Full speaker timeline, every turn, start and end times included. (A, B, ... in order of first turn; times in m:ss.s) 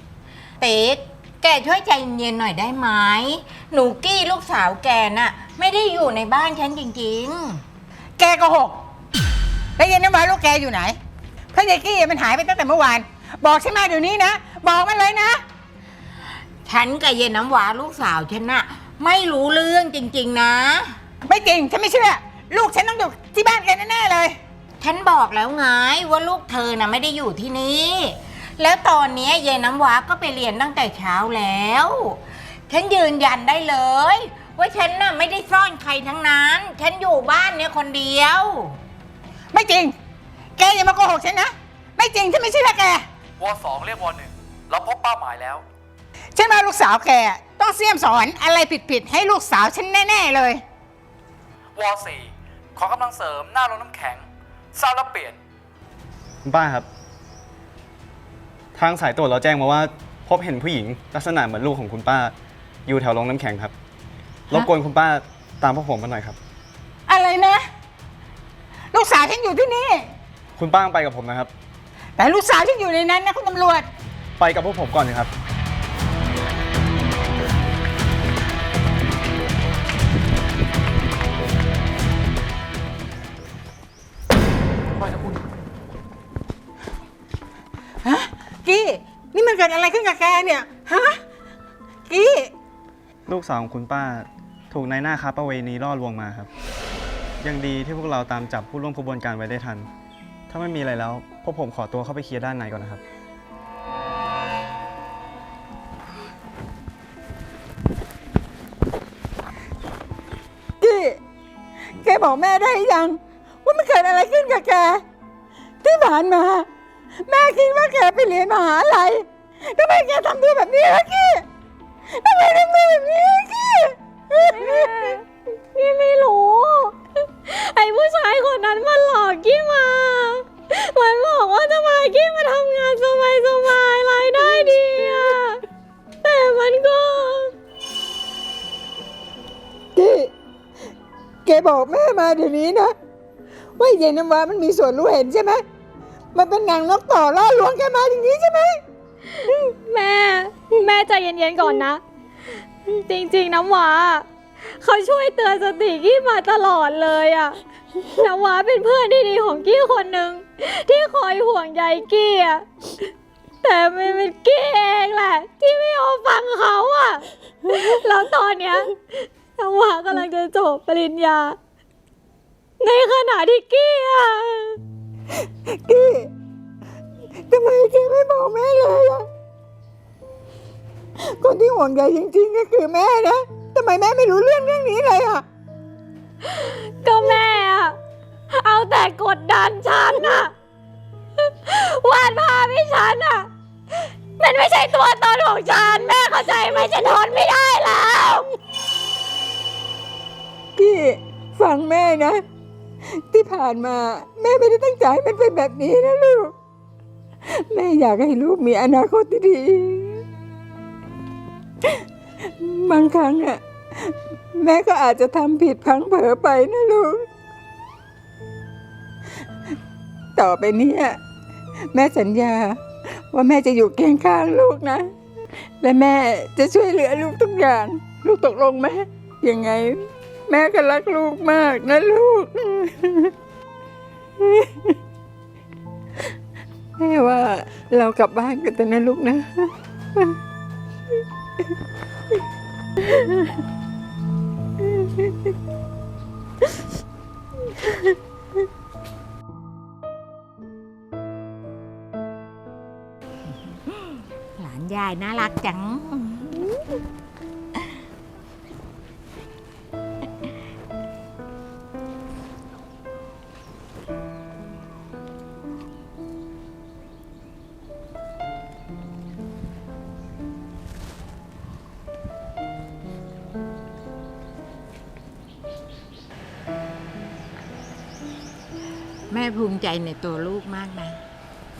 0:00.6-0:07.6 A
0:08.2-0:08.8 B
0:09.8-0:11.0 B
0:11.5-0:15.4 B
0:16.6-0:21.0 A
0:21.2-0:24.4 B
0:24.8-0:38.8 A
0:39.5-0:39.9 B
0:40.6-0:43.0 B
0:43.4-0:45.6 C
0:46.3-0:50.6 B
0:51.7-0:55.4 C
0:56.4-0:56.9 D
0:58.7-1:02.3 D
1:02.9-1:03.7 D
1:04.5-1:06.4 D
1:07.1-1:07.7 B
1:08.9-1:10.1 B
1:10.6-1:11.5 D
1:12.2-1:13.9 B
1:14.4-1:15.3 D
1:28.0-1:31.2 B
1:32.1-1:32.5 B
1:33.3-1:36.5 D
1:37.4-1:39.9 D
1:40.5-1:43.0 D
1:50.8-1:51.2 B
1:52.0-1:55.0 B
1:55.8-1:56.7 B
1:57.2-2:01.4 B
2:02.1-2:05.1 B
2:04.5-2:15.6 E
2:16.2-2:17.5 E
2:19.9-2:20.3 B
2:21.4-2:22.9 B
2:23.8-2:25.6 B
2:26.3-2:28.8 B
2:29.3-2:32.0 E
2:32.8-2:43.1 E
2:43.6-2:51.6 E
2:52.8-2:54.8 E
2:55.4-2:56.3 B
2:57.5-2:59.2 B
3:01.2-3:05.4 B
3:06.4-3:07.9 E
3:08.5-3:10.5 E
3:11.4-3:18.5 E
3:20.8-3:22.4 B
3:23.0-3:26.5 B
3:27.5-3:30.2 B
3:32.4-3:37.3 B
3:40.3-3:41.2 B
3:41.9-3:45.1 B
3:45.8-3:53.3 B
3:54.4-3:55.0 B
3:57.0-4:00.4 B
4:03.0-4:03.5 B
4:14.6-4:16.6 A
4:39.3-4:41.2 A